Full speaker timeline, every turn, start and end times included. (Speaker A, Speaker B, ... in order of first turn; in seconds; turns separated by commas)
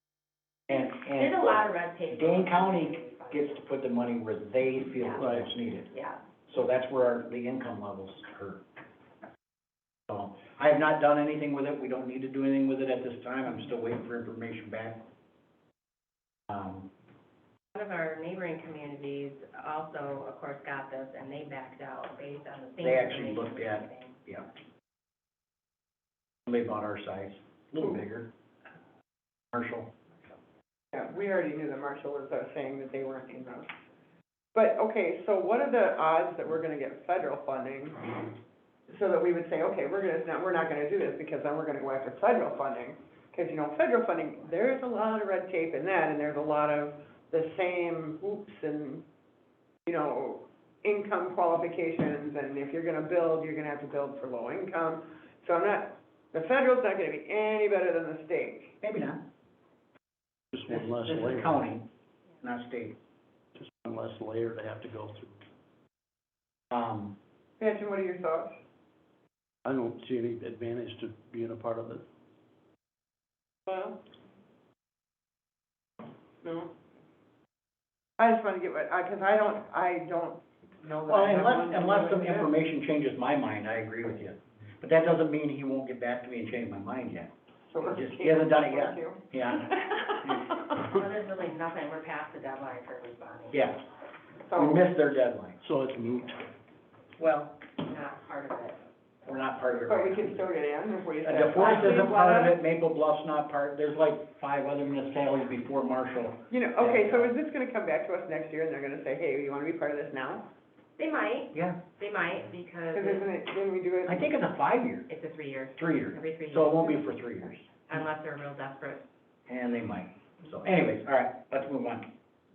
Speaker A: 0.7-5.9, Speaker B: 0.7-3.6, Speaker B: 5.0-5.3, Speaker C: 5.2-5.5, Speaker B: 5.9-6.2, Speaker A: 6.5-8.6, Speaker A: 10.1-15.0, Speaker A: 16.5-16.9, Speaker B: 17.7-24.2, Speaker A: 22.8-24.4, Speaker A: 26.4-28.3, Speaker A: 29.5-29.9, Speaker D: 30.9-33.7, Speaker D: 34.5-38.3, Speaker D: 38.9-49.0, Speaker D: 49.9-58.7, Speaker A: 58.8-59.2, Speaker C: 60.5-61.6, Speaker A: 60.7-61.9, Speaker A: 62.4-63.0, Speaker C: 63.5-65.4, Speaker A: 66.7-67.2, Speaker D: 67.6-68.6, Speaker C: 69.6-72.0, Speaker D: 73.7-74.0, Speaker D: 76.4-76.7, Speaker D: 78.2-82.5, Speaker A: 81.1-90.6, Speaker D: 87.7-90.5, Speaker B: 90.7-93.7, Speaker A: 93.5-93.8, Speaker D: 94.5-94.8, Speaker A: 94.5-95.6, Speaker C: 95.6-96.5, Speaker A: 97.2-97.6, Speaker B: 97.8-98.8, Speaker A: 99.2-100.5, Speaker D: 99.9-102.5, Speaker A: 101.2-107.3, Speaker D: 106.5-110.5, Speaker B: 111.0-113.2, Speaker A: 111.5-111.8, Speaker D: 112.9-114.3, Speaker A: 114.1-115.1, Speaker B: 115.1-117.1, Speaker A: 115.8-117.7, Speaker B: 117.8-119.1, Speaker A: 119.5-122.1